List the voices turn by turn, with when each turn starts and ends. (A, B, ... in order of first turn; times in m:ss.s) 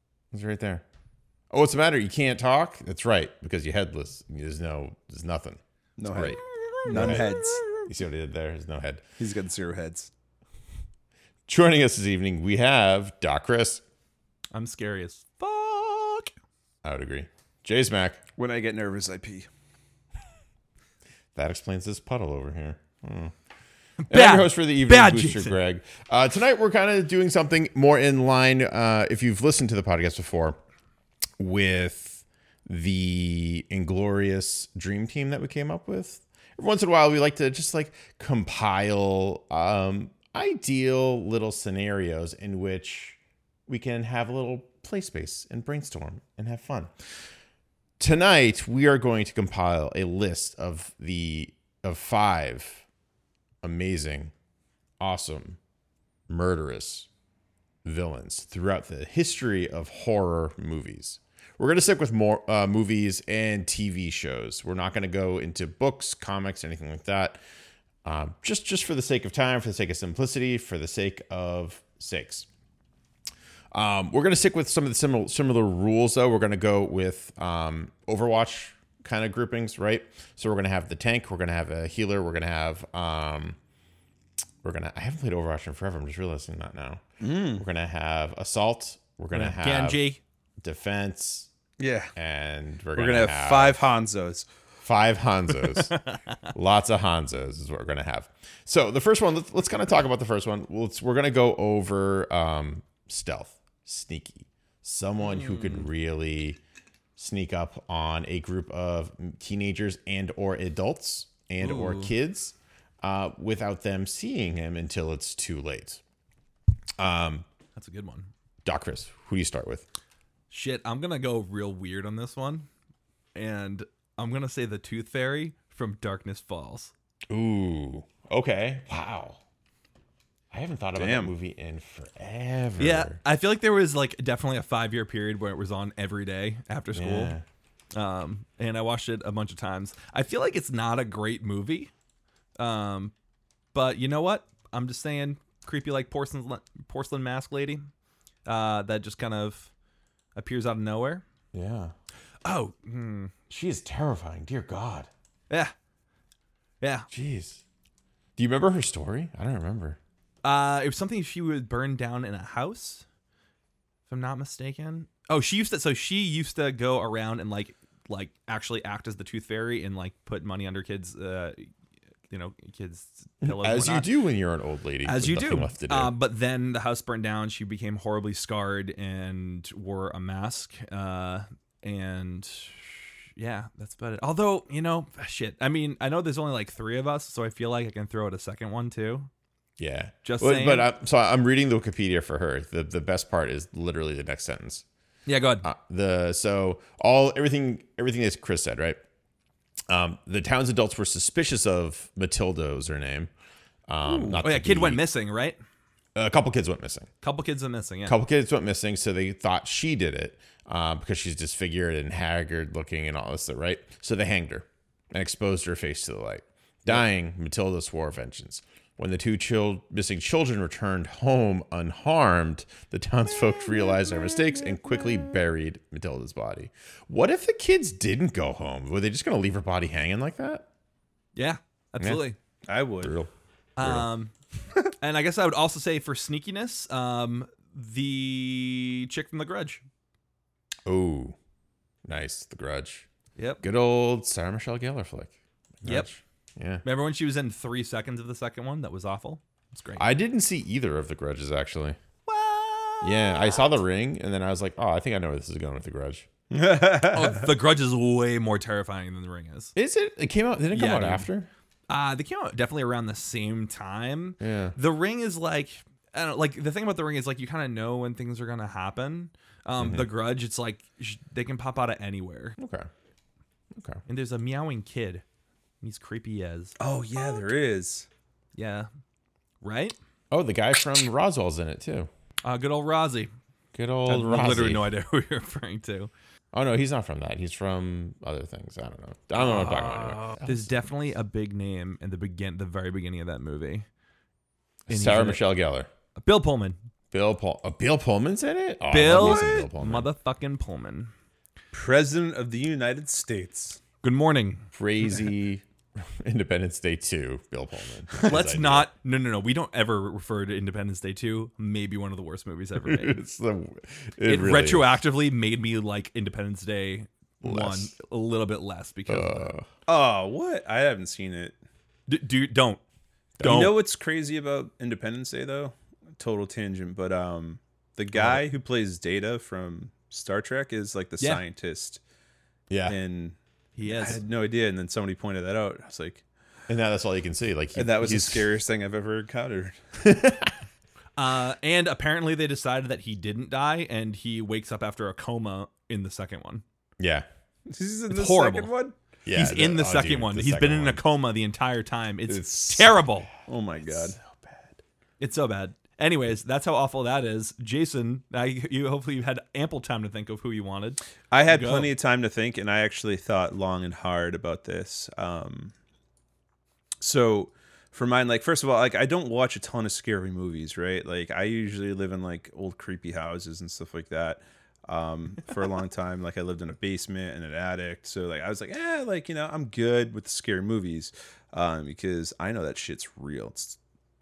0:00.3-0:00.8 A
0:01.5-0:06.4 A
0:06.0-0:07.7 B
0:06.6-0:07.8 C
0:06.9-0:07.3 A
0:07.9-0:09.0 A
0:09.2-0:10.1 B
0:11.5-0:13.8 A
0:14.5-0:16.3 C
0:16.8-0:18.2 A
0:18.4-0:19.5 B
0:21.4-0:23.3 A
0:24.0-0:25.6 C
0:24.1-0:30.6 A
0:31.4-0:46.9 A
0:48.0-0:52.8 A
0:53.6-0:54.3 A
0:55.0-0:55.6 A
0:56.3-0:57.1 A
0:57.8-1:07.4 A
1:08.0-1:12.5 A
1:13.7-1:23.6 A
1:24.6-1:27.0 A
1:27.2-1:27.6 B
1:27.6-1:30.0 A
1:29.3-1:30.2 C
1:30.6-1:31.5 A
1:31.8-1:32.1 B
1:32.2-1:33.9 A
1:33.0-1:34.5 B
1:34.8-1:36.0 A
1:35.9-1:36.5 C
1:36.5-1:46.6 A
1:45.2-1:45.9 C
1:47.2-1:56.0 A
1:51.6-1:52.1 C
1:57.0-1:57.5 A
1:57.8-1:58.3 C
1:58.6-1:59.9 A
2:00.5-2:02.7 C
2:03.4-2:06.9 C
2:07.3-2:09.4 A
2:10.5-2:13.2 A
2:11.0-2:11.3 B
2:12.8-2:17.4 C
2:16.9-2:17.4 A
2:17.9-2:21.9 C
2:22.6-2:23.1 C
2:23.7-2:27.9 C
2:28.5-2:29.7 C
2:30.4-2:31.2 C
2:31.5-2:31.9 A
2:32.4-2:33.3 C
2:33.5-2:35.1 A
2:36.8-2:37.1 C
2:37.1-2:37.6 A
2:38.4-2:40.0 A
2:40.4-2:43.0 C
2:44.1-2:51.7 C
2:52.3-2:54.1 C
2:53.4-2:56.1 A
2:55.0-3:09.3 C
3:09.8-3:14.8 A
3:10.2-3:10.9 C
3:15.3-3:15.7 C
3:15.6-3:19.0 A
3:19.9-3:23.3 A
3:23.9-3:25.0 A
3:24.0-3:25.6 C
3:26.2-3:27.1 A
3:27.2-3:28.2 C
3:28.0-3:50.7 A
3:51.4-3:52.4 C
3:52.7-3:53.2 B
3:53.0-3:54.1 A
3:53.8-3:54.3 C
3:55.0-3:59.8 C
4:00.9-4:01.4 A
4:02.0-4:03.1 A
4:03.4-4:03.6 C
4:03.6-4:06.8 A
4:06.8-4:10.1 C
4:10.0-4:12.0 A
4:12.3-4:13.7 C
4:13.0-4:16.3 A
4:16.5-4:17.5 B
4:17.1-4:19.7 C
4:19.8-4:21.5 A
4:20.7-4:21.3 C
4:21.9-4:32.6 C
4:24.4-4:24.8 A
4:29.8-4:30.1 A
4:32.6-4:32.9 A
4:33.8-4:34.0 A
4:34.1-4:35.2 C
4:35.8-4:36.8 C
4:36.8-4:38.1 B
4:38.6-4:38.9 C
4:39.6-4:40.0 C
4:40.3-4:42.1 A
4:42.4-4:43.3 C
4:43.7-4:44.9 A
4:44.1-4:46.1 C
4:46.5-4:50.6 A
4:49.4-4:53.8 C
4:54.9-4:55.9 A
4:54.9-4:55.4 C
4:56.2-4:56.8 C
4:57.1-5:00.1 A
4:58.9-5:01.1 C
4:59.1-4:59.5 B
5:01.7-5:03.8 B
5:04.0-5:04.7 C
5:04.7-5:08.9 A
5:08.2-5:13.2 C
5:12.8-5:15.0 A
5:14.2-5:19.5 C
5:17.4-5:17.9 A
5:19.1-5:19.7 A
5:19.9-5:21.6 B
5:22.1-5:22.8 C
5:23.4-5:23.6 A
5:23.4-5:23.8 C
5:23.4-5:32.0 B
5:28.1-5:28.4 A
5:32.7-5:33.0 A
5:32.9-5:36.2 B
5:33.8-5:34.2 C
5:36.7-5:38.5 A
5:37.8-5:39.8 B
5:40.0-5:40.6 A
5:41.2-5:46.6 C
5:47.0-5:47.3 A
5:47.7-5:49.0 B
5:48.1-5:48.7 C
5:49.3-5:51.0 A
5:49.3-5:53.3 C
5:52.3-5:53.3 A
5:53.5-5:54.2 B
5:53.8-5:54.8 A
5:55.2-6:01.9 C
6:01.3-6:05.7 B
6:07.0-6:23.8 B